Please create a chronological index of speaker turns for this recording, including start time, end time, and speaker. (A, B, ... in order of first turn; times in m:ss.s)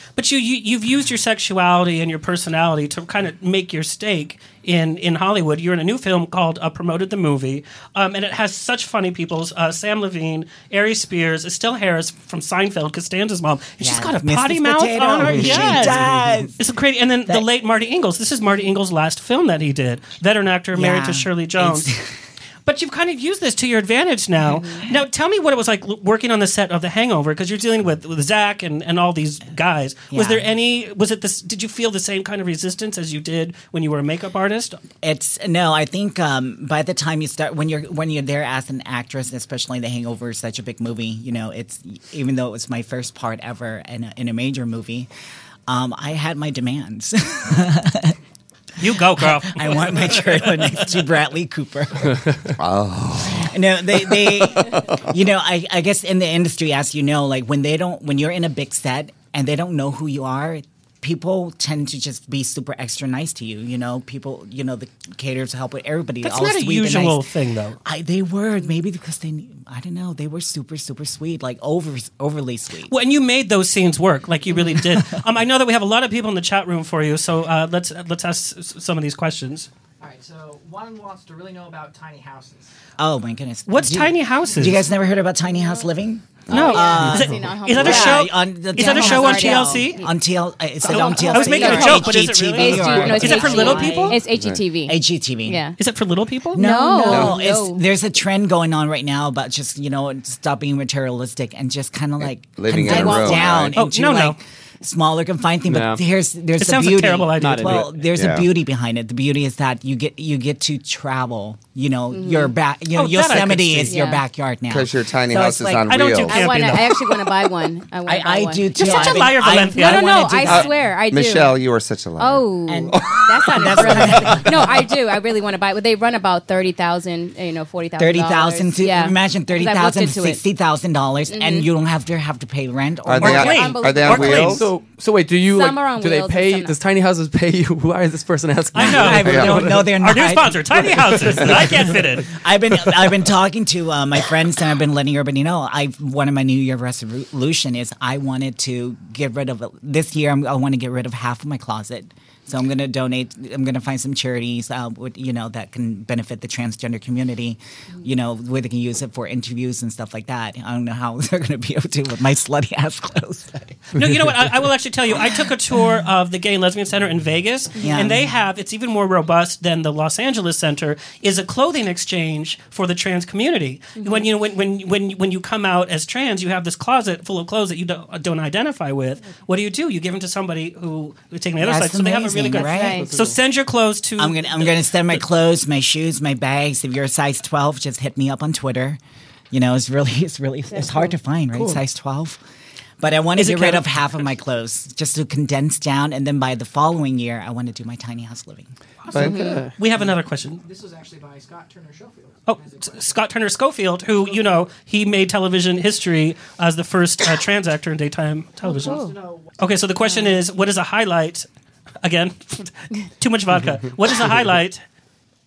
0:00.2-0:21.9 A
0:13.8-0:16.6 B
0:15.2-0:16.3 C
0:20.7-0:22.1 B
0:22.6-0:34.8 A
0:24.5-0:24.8 D
0:30.1-0:30.5 B
0:35.0-0:45.1 B
0:45.7-0:48.2 B
0:48.8-0:50.7 A
0:49.1-0:52.2 B
0:52.6-0:55.0 E
0:53.3-1:07.2 B
1:06.2-1:07.8 A
1:07.8-1:12.9 B
1:12.9-1:19.7 A
1:14.7-1:15.1 B
1:20.0-1:22.7 F
1:23.0-1:34.2 B
1:23.7-1:24.8 A
1:26.5-1:30.0 A
1:26.5-1:30.2 D
1:30.8-1:35.8 D
1:30.8-1:34.2 A
1:34.3-1:34.6 E
1:34.9-1:35.6 B
1:35.8-1:36.6 A
1:36.5-1:55.8 B
1:36.6-1:37.8 D
1:37.0-1:37.4 E
1:42.2-1:43.8 E
1:42.8-1:43.6 D
1:43.7-1:44.4 A
1:45.7-1:46.0 C
1:46.6-1:47.8 A
1:47.3-1:48.0 C
1:48.1-1:48.5 E
1:52.1-1:52.6 D
1:52.9-1:54.0 A
1:53.8-1:54.2 D
1:54.7-1:56.6 E
1:55.8-1:57.1 A
1:56.2-2:01.6 D
1:58.0-2:00.8 B
1:58.8-2:00.4 A
2:00.5-2:04.4 E
2:02.2-2:10.4 D
2:02.7-2:04.8 B
2:08.0-2:13.6 B
2:11.3-2:11.7 D
2:13.0-2:14.7 E
2:13.2-2:14.6 A
2:13.2-2:14.7 D
2:14.4-2:19.9 C
2:15.4-2:16.8 D
2:18.7-2:22.3 A
2:18.7-2:43.9 B
2:19.2-2:19.7 E
2:21.2-2:21.9 C
2:43.9-3:04.8 A
2:47.8-2:48.1 D
2:47.8-2:48.2 B
2:54.0-2:54.3 D
3:01.6-3:03.1 B
3:02.5-3:03.1 D
3:02.8-3:03.4 C
3:04.2-3:09.0 B
3:09.5-3:12.4 B
3:10.7-3:11.1 D
3:11.5-3:11.8 C
3:13.0-3:18.7 B
3:13.4-3:13.9 A
3:19.0-3:19.4 F
3:19.2-3:19.6 D
3:19.2-3:19.7 C
3:19.8-3:20.6 A
3:20.6-3:23.3 F
3:22.5-3:29.1 A
3:24.1-3:24.7 F
3:28.6-3:29.3 D
3:28.6-3:29.8 F
3:29.6-3:31.5 A
3:30.0-3:30.4 D
3:32.0-3:34.8 A